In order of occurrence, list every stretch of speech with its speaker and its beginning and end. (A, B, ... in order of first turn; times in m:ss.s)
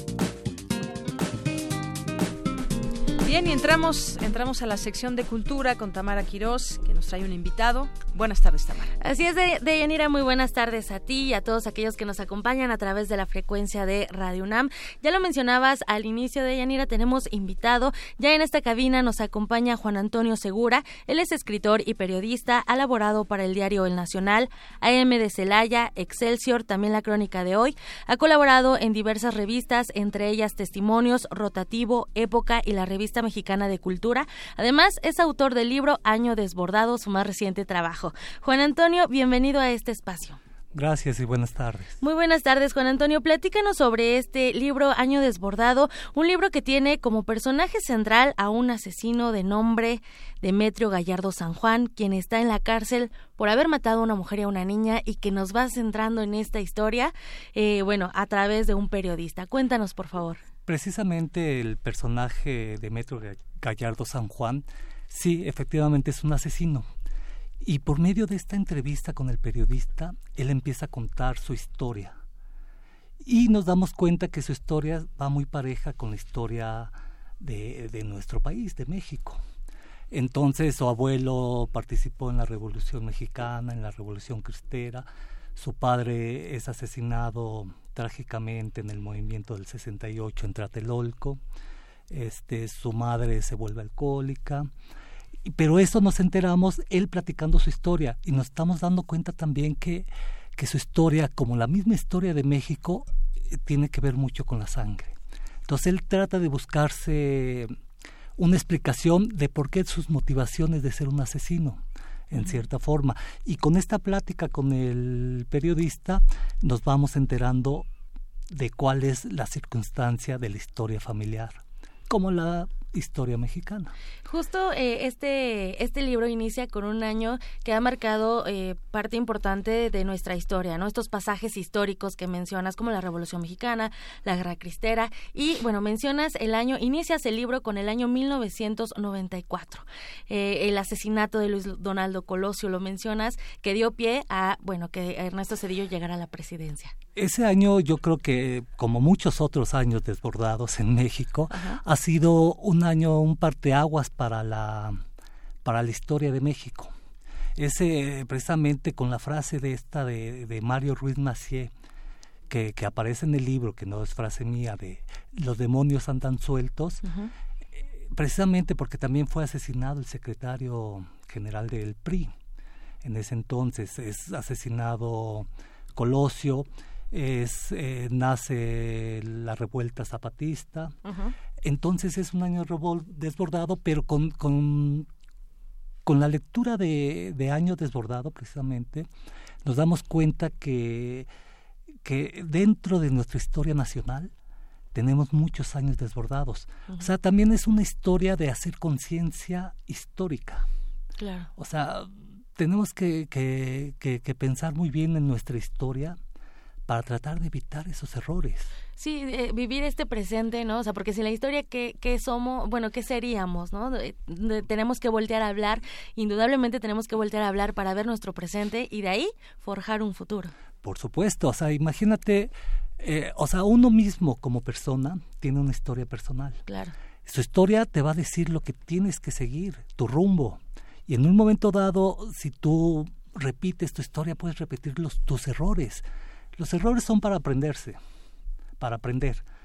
0:03.2-0:08.9 A
0:09.0-0:40.4 B
0:40.7-0:42.0 C
0:42.0-1:00.4 B
1:00.7-1:06.9 C
1:07.6-1:12.2 C
1:13.2-1:19.4 C
1:20.1-1:31.4 C
1:32.1-1:34.7 C
1:35.5-1:45.1 C
1:45.7-1:47.7 C
1:48.4-1:57.9 C
1:52.3-1:52.6 B
1:58.5-2:03.9 C
2:04.2-2:26.9 B
2:27.2-2:35.0 C
2:31.5-2:31.8 B
2:35.6-2:36.9 C
2:37.6-2:41.7 C
2:42.5-2:47.1 C
2:47.0-2:47.3 B
2:48.1-2:52.3 C
2:53.0-3:01.0 C
3:01.6-3:05.1 C
3:06.0-3:09.1 C
3:09.6-3:11.3 C
3:12.0-3:14.3 C
3:14.9-3:20.6 C
3:21.2-3:21.5 B
3:21.6-3:26.2 C
3:26.9-3:28.7 C
3:29.0-3:40.5 B
3:40.8-3:46.6 C
3:46.7-3:46.9 B
3:47.2-3:56.0 C
3:56.6-3:58.0 C
3:58.8-3:59.4 C